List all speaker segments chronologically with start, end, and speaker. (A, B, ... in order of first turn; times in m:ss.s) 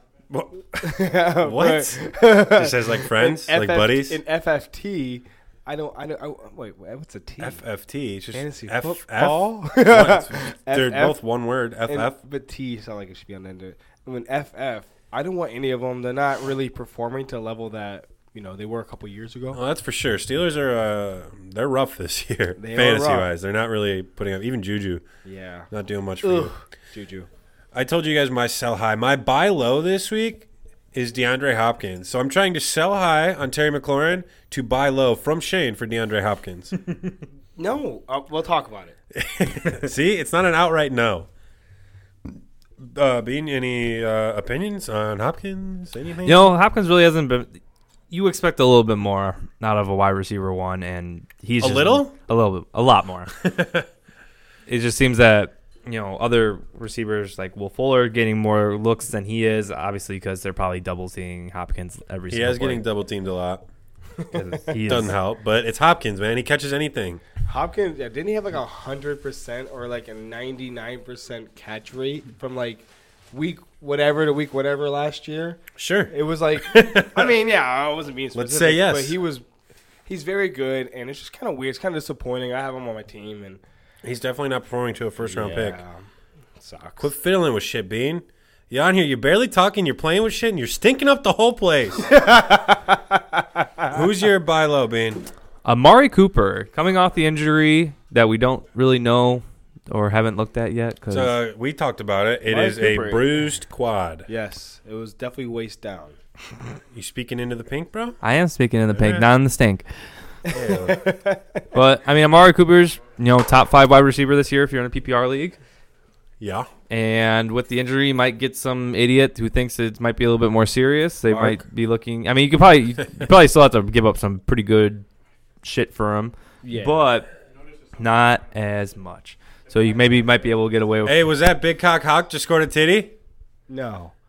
0:00.3-0:04.2 A
0:00.8-0:07.6 B
0:07.4-0:12.2 A
0:08.3-0:11.2 B
0:11.9-0:19.6 B
0:19.5-0:25.0 A
0:22.6-0:23.3 B
0:25.2-0:25.7 B
0:25.7-0:26.5 A
0:26.2-0:27.3 B
0:27.7-0:37.2 A
0:37.6-0:39.0 B
0:39.1-0:41.3 A
0:42.8-0:46.5 A
0:46.2-0:47.6 C
0:48.1-0:53.3 C
0:51.6-0:52.1 A
0:53.4-0:53.9 A
0:54.7-1:02.8 C
1:02.3-1:03.6 A
1:04.3-1:05.1 C
1:04.8-1:07.2 A
1:07.4-1:19.4 B
1:15.8-1:17.3 A
1:18.3-1:19.2 A
1:20.0-1:23.6 B
1:24.0-1:25.8 A
1:25.2-1:27.1 B
1:27.0-1:32.1 A
1:32.1-1:33.9 B
1:33.9-1:35.2 A
1:35.6-1:41.3 C
1:41.1-1:44.3 A
1:42.5-1:43.2 B
1:44.3-1:46.2 B
1:46.9-1:48.2 A
1:48.2-1:49.9 C
1:48.9-1:49.3 A
1:50.4-1:51.7 B
1:50.5-1:51.0 A
1:51.7-1:55.6 C
1:56.4-1:56.7 A
1:56.9-2:05.0 C
2:01.3-2:01.6 A
2:05.6-2:07.3 C
2:06.6-2:07.0 B
2:08.0-2:11.2 C
2:11.0-2:13.1 A
2:13.7-2:14.1 B